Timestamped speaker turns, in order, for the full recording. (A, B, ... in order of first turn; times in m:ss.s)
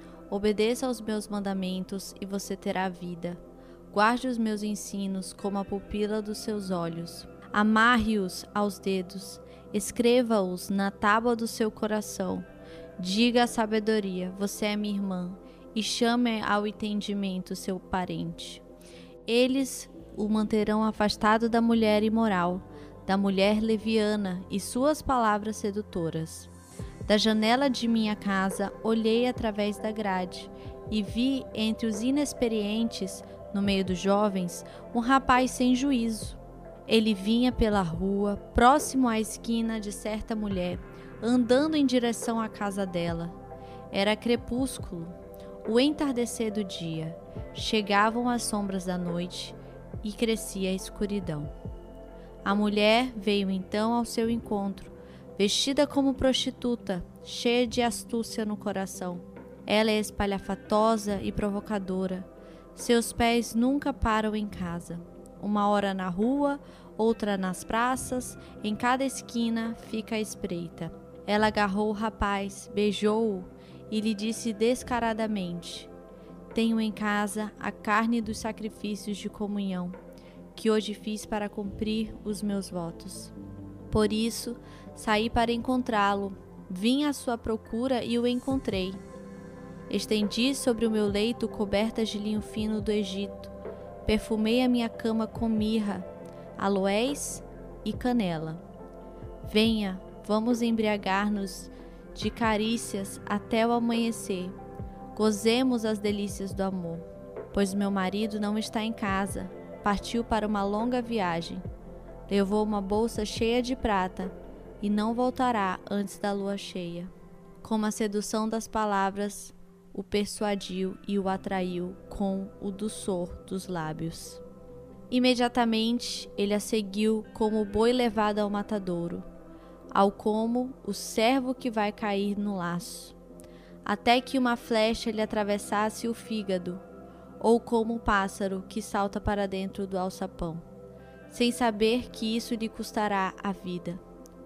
0:00.3-0:12.5 A
0:13.0-0:18.6 A
0:19.3-0:26.5 A
0:27.1-0:43.4 A
0:43.9-0:51.5 A
0:52.4-1:15.9 A
1:16.5-1:20.0 A
1:20.5-1:23.3 A
1:23.9-1:29.0 A
1:29.9-1:33.5 A
1:34.1-1:38.6 A
1:39.4-1:44.6 A
1:45.1-1:51.6 A
1:52.3-2:04.4 A
2:05.1-2:09.3 A
2:10.0-2:13.2 A
2:13.8-2:16.8 A
2:17.4-2:20.7 A
2:21.3-2:24.0 A